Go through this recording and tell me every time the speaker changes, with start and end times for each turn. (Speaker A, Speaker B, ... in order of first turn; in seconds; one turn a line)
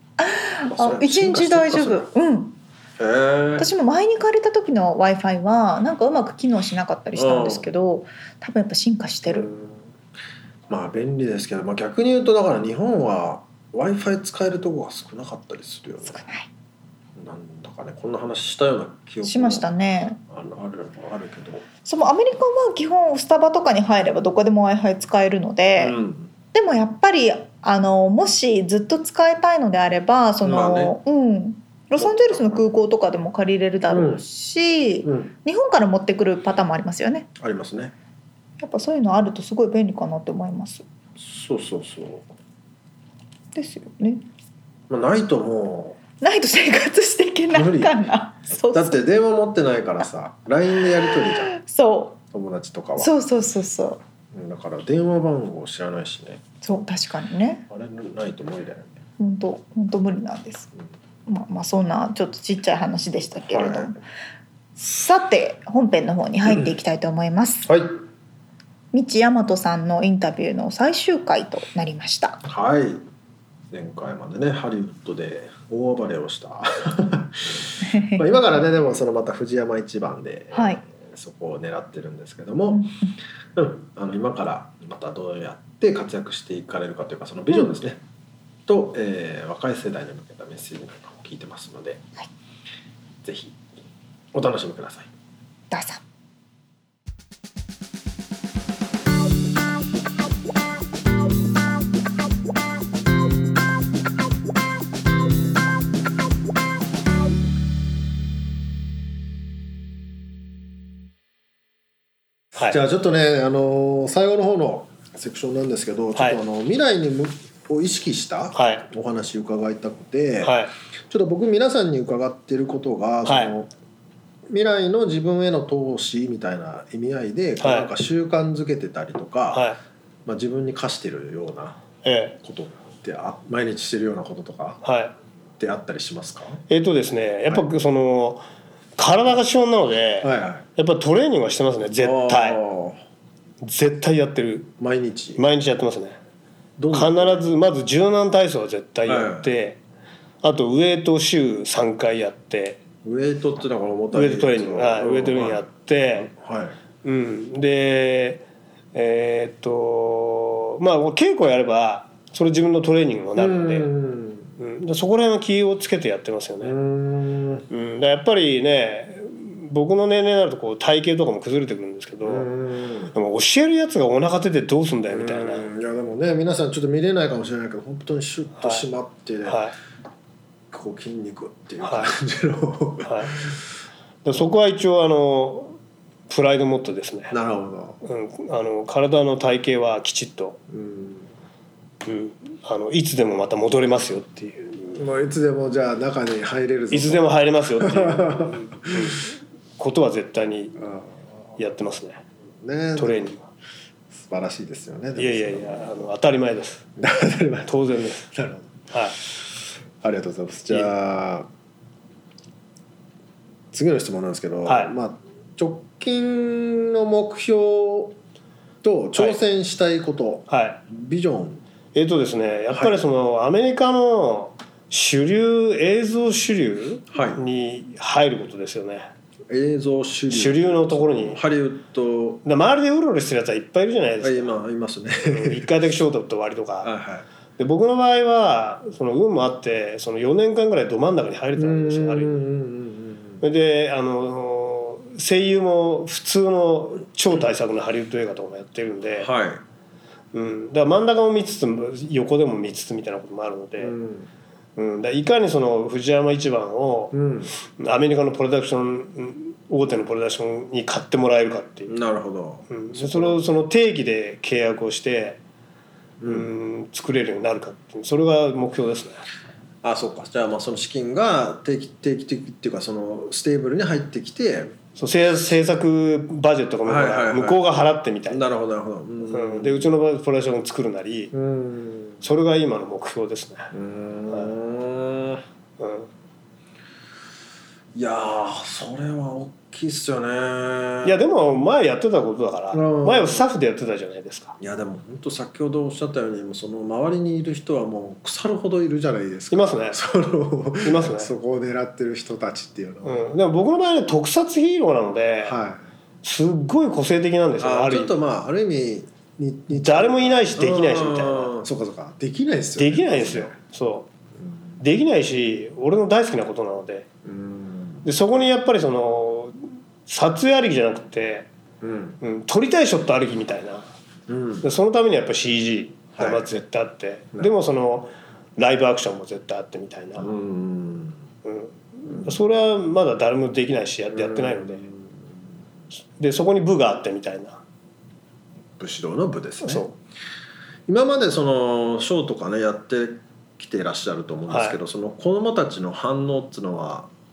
Speaker A: 0.2-2.6
Speaker B: 0.6-2.1
Speaker B: 3.0-3.7
Speaker A: 3.6-9.5
Speaker B: 7.2-7.7
Speaker B: 9.3-9.8
Speaker B: 10.7-16.2
Speaker A: 16.1-16.5
Speaker B: 17.2-19.7
Speaker A: 19.2-20.2
Speaker B: 20.3-21.6
Speaker A: 21.8-26.0
Speaker B: 25.8-26.3
Speaker A: 26.5-37.3
Speaker B: 30.4-31.0
Speaker B: 32.0-32.6
Speaker B: 33.9-34.2
Speaker B: 35.0-35.3
Speaker B: 37.4-37.9
Speaker A: 38.6-40.9
Speaker B: 41.2-42.3
Speaker A: 43.5-44.2
Speaker B: 44.9-46.0
Speaker A: 46.2-49.1
Speaker B: 47.5-48.0
Speaker B: 48.7-51.6
Speaker A: 51.0-52.2
Speaker B: 52.3-53.1
Speaker A: 53.0-54.0
Speaker B: 54.3-56.4
Speaker A: 56.6-57.7
Speaker B: 57.7-59.0
Speaker A: 59.2-60.7
Speaker A: 61.3-64.0
Speaker B: 63.5-64.0
Speaker A: 64.8-67.7
Speaker B: 67.7-67.9
Speaker A: 68.9-72.4
Speaker B: 72.5-73.0
Speaker B: 73.7-82.9
Speaker A: 77.8-78.4
Speaker A: 80.5-80.8
Speaker B: 83.5-88.0
Speaker B: 88.7-92.0
Speaker B: 93.2-93.6
Speaker B: 94.3-95.1
Speaker A: 95.7-96.0
Speaker B: 112.6-120.5
Speaker C: 118.6-118.8
Speaker C: 120.4-120.7
Speaker B: 121.1-123.7
Speaker C: 123.3-123.5
Speaker B: 124.5-129.7
Speaker C: 127.6-127.9
Speaker C: 129.5-129.8
Speaker B: 130.3-131.8
Speaker C: 132.0-132.4
Speaker B: 132.4-134.8
Speaker C: 134.8-135.1
Speaker B: 135.6-136.6
Speaker C: 136.7-138.4
Speaker C: 139.0-142.6
Speaker B: 140.2-140.7
Speaker B: 142.0-143.0
Speaker C: 143.6-144.7
Speaker B: 144.8-145.4
Speaker C: 145.4-146.2
Speaker B: 146.8-147.4
Speaker C: 146.9-149.8
Speaker B: 149.1-149.5
Speaker C: 150.4-152.8
Speaker B: 153.0-156.8
Speaker C: 154.1-156.3
Speaker C: 157.0-163.9
Speaker B: 163.4-164.5
Speaker C: 164.6-166.8
Speaker B: 166.6-167.7
Speaker C: 167.7-172.5
Speaker B: 172.2-173.1
Speaker C: 173.2-175.7
Speaker B: 175.1-179.6
Speaker C: 179.4-179.8
Speaker B: 180.7-183.6
Speaker C: 181.8-182.1
Speaker C: 183.1-183.3
Speaker C: 184.2-185.8
Speaker C: 186.3-187.3
Speaker B: 187.3-188.0
Speaker C: 188.0-190.6
Speaker B: 190.7-191.3
Speaker C: 192.0-195.0
Speaker B: 194.9-199.2
Speaker C: 196.9-200.8
Speaker B: 200.8-201.1
Speaker C: 201.6-202.2
Speaker B: 202.6-203.3
Speaker C: 203.0-203.4
Speaker B: 204.1-205.9
Speaker C: 205.2-206.8
Speaker B: 207.0-207.7
Speaker C: 207.7-208.3
Speaker B: 208.3-208.7
Speaker C: 208.9-209.2
Speaker B: 210.0-211.5
Speaker B: 213.7-218.2
Speaker C: 214.7-214.9
Speaker B: 218.8-221.6
Speaker C: 220.5-220.8
Speaker C: 221.9-229.1
Speaker B: 227.1-227.4
Speaker B: 229.5-232.4
Speaker C: 230.3-231.4
Speaker C: 232.5-234.6
Speaker B: 234.2-235.7
Speaker C: 235.3-236.9
Speaker B: 236.8-237.3
Speaker C: 237.6-242.5
Speaker B: 241.6-243.4
Speaker C: 243.4-249.3
Speaker B: 249.2-249.6
Speaker C: 250.3-254.0
Speaker B: 253.8-254.3
Speaker C: 254.8-257.2
Speaker B: 257.1-257.5
Speaker C: 257.7-262.0
Speaker B: 261.9-263.4
Speaker C: 262.7-265.4
Speaker B: 266.2-266.5
Speaker C: 266.3-269.2
Speaker B: 269.8-274.8
Speaker C: 275.0-278.4
Speaker B: 276.9-277.6
Speaker B: 278.3-279.9
Speaker C: 279.3-281.3
Speaker B: 281.3-282.2
Speaker C: 282.2-283.7
Speaker B: 283.7-285.4
Speaker C: 285.8-286.1
Speaker B: 287.9-291.2
Speaker C: 291.0-294.6
Speaker B: 292.7-293.5
Speaker B: 294.6-303.2
Speaker C: 299.5-300.0
Speaker C: 300.8-301.3
Speaker C: 303.0-305.6
Speaker B: 305.4-305.9
Speaker C: 306.2-308.1
Speaker B: 307.6-313.6
Speaker C: 309.8-311.5
Speaker C: 312.8-314.1
Speaker C: 314.8-317.1
Speaker B: 317.2-318.1
Speaker C: 318.1-321.5
Speaker B: 321.8-322.2
Speaker C: 322.2-323.9
Speaker B: 324.3-324.7
Speaker C: 324.6-330.3
Speaker B: 326.2-326.5
Speaker B: 330.2-331.2
Speaker C: 331.4-334.8
Speaker B: 332.1-332.4
Speaker B: 334.1-335.2
Speaker C: 336.2-337.6
Speaker B: 338.8-339.9
Speaker C: 339.6-339.9
Speaker B: 340.9-347.1
Speaker C: 344.5-344.8